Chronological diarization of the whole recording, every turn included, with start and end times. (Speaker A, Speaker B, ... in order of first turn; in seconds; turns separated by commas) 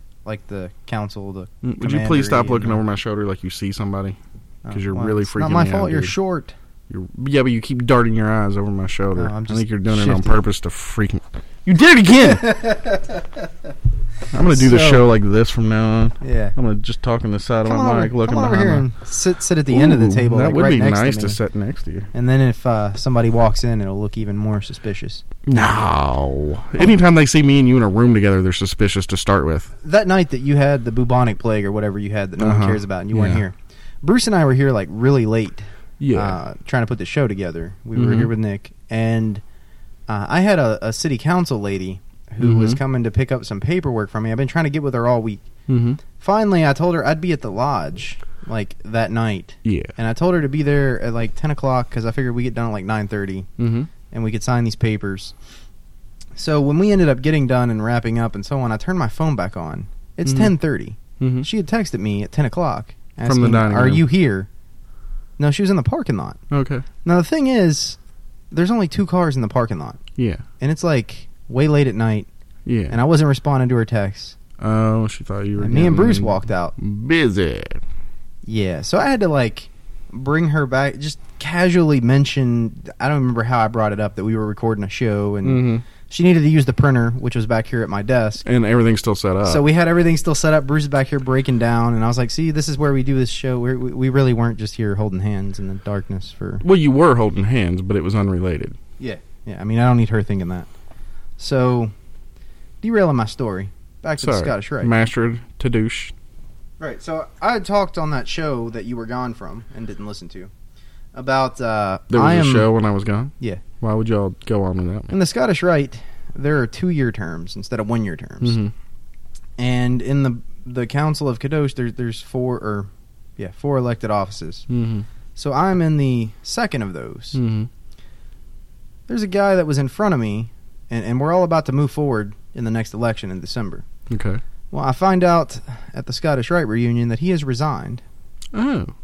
Speaker A: 0.2-2.8, Speaker B: 1.6-4.2, Speaker A: 4.7-6.5, Speaker B: 4.7-6.2, Speaker B: 6.9-12.6, Speaker A: 9.2-10.4, Speaker A: 12.3-13.3, Speaker B: 14.3-18.9, Speaker A: 14.4-15.1, Speaker A: 16.2-16.6, Speaker A: 17.6-21.4, Speaker B: 19.7-22.1, Speaker A: 22.1-25.2, Speaker B: 25.5-29.7, Speaker A: 29.8-39.4, Speaker B: 32.4-33.4, Speaker B: 36.0-36.4, Speaker B: 38.0-38.3, Speaker A: 40.1-45.5, Speaker B: 42.4-42.8, Speaker B: 45.7-46.0, Speaker A: 46.2-53.5, Speaker B: 49.6-50.0, Speaker B: 53.6-53.9, Speaker A: 54.1-55.4, Speaker A: 56.4-64.5, Speaker B: 60.2-60.5, Speaker B: 61.2-61.5, Speaker B: 63.2-64.0, Speaker A: 65.4-66.4, Speaker B: 66.5-66.9, Speaker A: 67.0-68.0, Speaker A: 68.5-70.0, Speaker B: 70.2-70.4, Speaker A: 70.6-72.3, Speaker B: 72.7-73.0, Speaker A: 72.9-74.4, Speaker B: 74.6-77.8, Speaker A: 75.6-76.8, Speaker A: 78.5-88.5, Speaker B: 85.4-85.8, Speaker B: 88.5-89.6, Speaker A: 89.4-96.7, Speaker B: 96.6-98.8, Speaker A: 99.0-100.7, Speaker A: 101.4-101.9, Speaker A: 102.8-104.9, Speaker B: 104.2-106.1, Speaker A: 106.8-110.5, Speaker A: 111.1-112.7, Speaker B: 112.1-115.1, Speaker A: 115.1-118.6, Speaker B: 118.4-118.7, Speaker A: 119.6-124.7, Speaker B: 124.7-125.1, Speaker A: 125.3-127.4, Speaker B: 127.3-127.7, Speaker A: 129.1-133.8, Speaker B: 134.1-134.4, Speaker A: 134.7-138.0, Speaker B: 138.5-138.9